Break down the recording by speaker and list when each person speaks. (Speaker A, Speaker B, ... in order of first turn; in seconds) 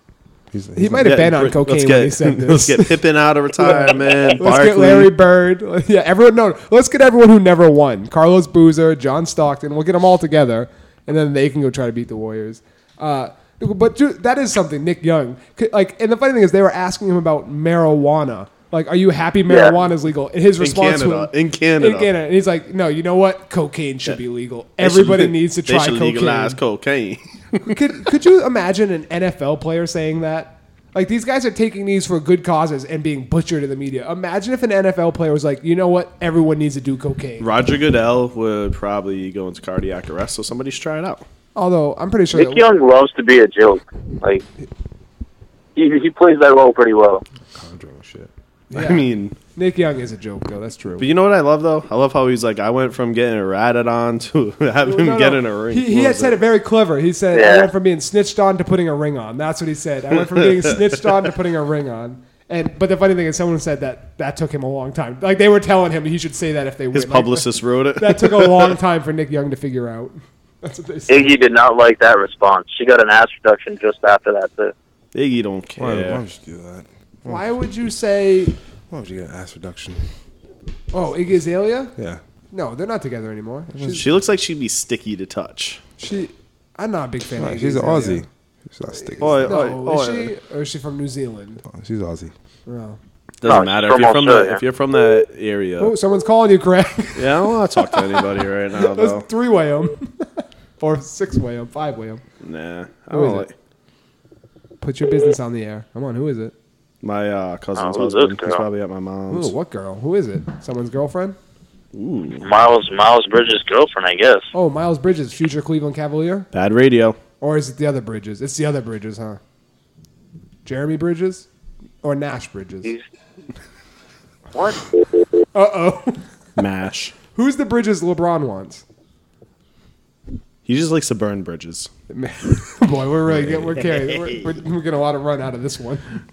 Speaker A: 0.5-1.3, 47.5-48.3, 75.8-77.5, 78.9-80.1, 83.7-84.0, 87.4-89.6, 91.7-92.3
Speaker B: 0.7-3.0, 3.6-26.6, 27.6-37.5, 41.5-42.6, 48.7-51.1, 54.8-71.3, 77.2-78.5, 80.9-81.9, 82.5-84.1, 86.0-88.2, 89.0-91.6, 92.7-93.0, 95.8-102.2, 103.1-103.5, 104.8-106.5, 109.3-111.4, 114.5-116.5, 117.4-119.4, 120.6-121.5, 122.0-122.9, 125.5-126.2, 127.3-128.8, 132.1-136.2
Speaker C: 1.0-5.1, 20.6-22.1, 24.8-27.7, 37.4-41.2, 48.7-49.4, 51.0-56.4, 66.9-68.8, 75.1-76.2, 83.9-85.8, 89.2-90.3, 93.4-95.9, 97.2-99.3, 102.4-103.5, 107.0-109.5, 111.9-112.5, 116.5-117.2, 126.6-127.1, 130.6-131.9
Speaker D: 19.5-19.8, 42.3-44.4, 45.8-47.2, 57.3-57.7, 71.1-74.7, 93.4-94.6, 107.8-108.6, 112.4-114.5, 124.5-124.8